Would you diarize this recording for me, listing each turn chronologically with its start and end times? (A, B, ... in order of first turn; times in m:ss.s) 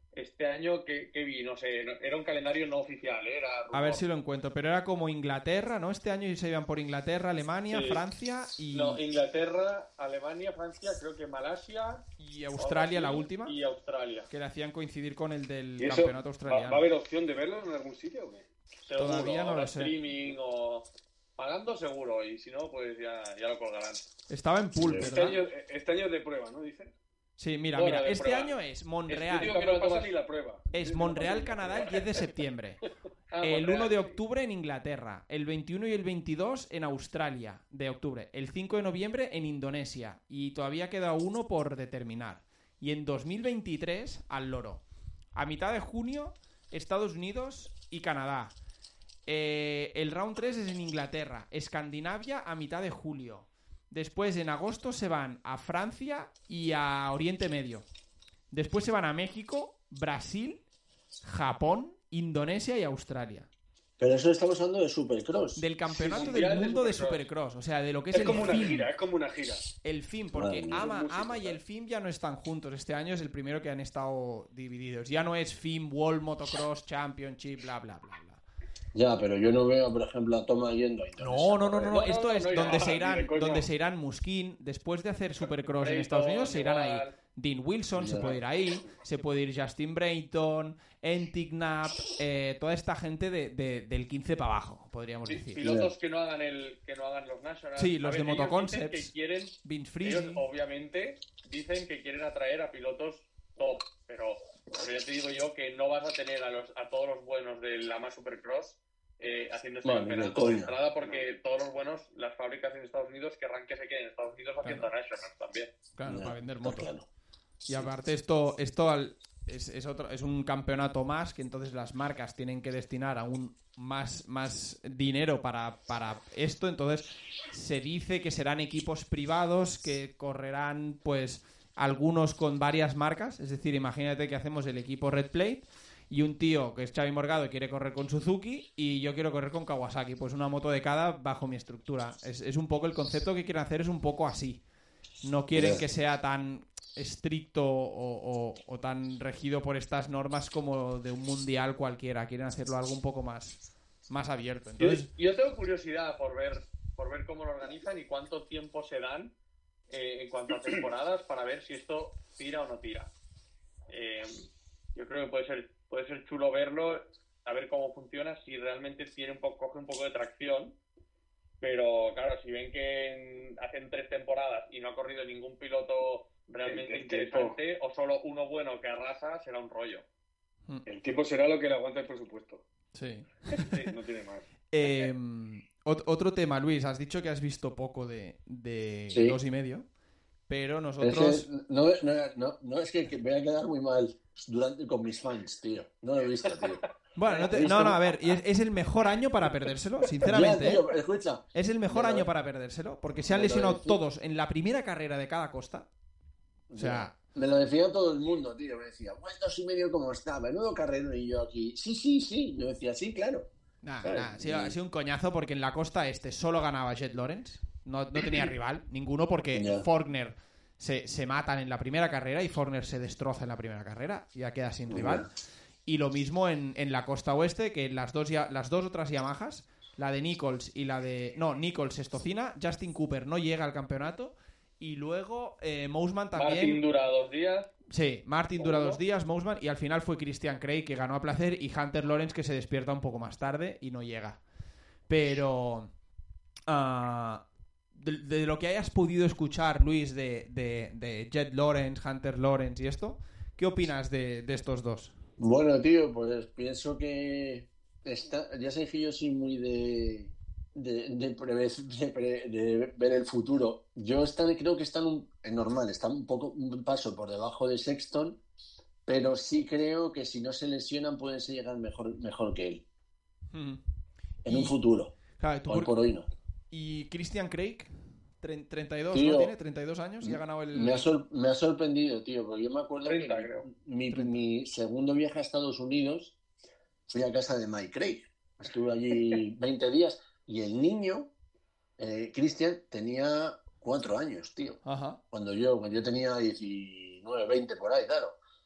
0:00.2-0:04.0 A
0:03.7-0:09.0 B
0:07.7-0:08.0 A
0:08.7-0:12.1 A
0:12.2-0:13.6 B
0:12.6-0:14.3 A
0:14.3-0:16.9 B
0:15.8-0:18.5 C
0:18.9-0:20.9 A
0:19.0-0:19.9 B
0:21.4-0:24.0 A
0:24.3-0:25.4 B
0:24.8-0:25.1 D
0:25.0-0:27.0 C
0:27.4-0:29.6 B
0:27.8-0:28.6 A
0:29.1-0:32.2 C
0:29.4-0:30.1 A
0:30.7-0:32.8 B
0:33.3-0:34.1 A
0:33.4-0:44.8 B
0:45.4-0:48.5 B
0:49.3-0:57.8 B
0:58.5-1:00.6 B
1:01.2-1:03.5 B
1:04.0-1:06.3 D
1:05.6-1:08.9 B
1:06.0-1:07.2 A
1:08.1-1:09.7 C
1:09.8-1:18.4 B
1:10.3-1:10.9 D
1:10.7-1:11.6 C
1:18.9-1:22.0 D
1:21.2-1:35.6 B
1:21.9-1:23.6 A
1:22.5-1:23.6 C
1:25.8-1:27.1 A
1:28.0-1:28.4 D
1:35.3-1:55.7 A
1:35.6-1:35.9 D
1:37.8-1:40.4 B
1:49.8-1:50.7 D
1:54.6-1:54.9 B
1:56.0-1:56.9 B
1:56.1-1:57.1 D
1:57.6-1:57.9 D
1:57.6-2:24.6 B
2:25.2-2:35.1 B
2:25.5-2:25.8 D
2:34.8-2:39.3 A
2:39.9-2:43.1 A
2:43.9-2:50.8 A
2:51.6-3:00.0 A
2:56.6-2:57.6 C
3:00.9-3:02.6 C
3:02.9-3:03.9 B
3:03.6-3:04.5 C
3:04.7-3:09.8 B
3:09.1-3:09.4 D
3:10.5-3:11.5 B
3:11.0-3:16.8 D
3:17.2-3:20.8 B
3:17.4-3:18.4 D
3:20.2-3:22.3 D
3:21.6-3:25.9 B
3:23.2-3:24.0 D
3:26.7-3:33.5 D
3:26.7-3:27.2 B
3:33.8-3:45.3 B
3:34.0-3:34.8 D
3:39.6-3:39.9 D
3:44.9-3:45.3 D
3:45.9-3:56.8 B
3:56.4-3:57.7 A
3:57.9-4:04.4 B
3:58.6-3:59.0 A
4:05.1-4:05.9 B
4:06.7-4:07.4 B
4:08.0-4:15.2 B
4:15.4-4:28.4 D
4:29.1-4:32.8 D
4:33.5-4:33.8 B
4:34.4-4:34.8 B
4:34.4-4:35.1 D
4:35.4-4:35.9 B
4:35.7-4:36.3 D
4:36.7-4:41.1 B
4:39.1-4:39.5 D
4:40.2-4:46.4 D
4:43.0-4:43.7 A
4:44.1-4:44.4 B
4:47.1-4:51.3 D
4:52.0-4:54.8 D
4:54.8-4:55.2 B
4:55.3-4:58.4 D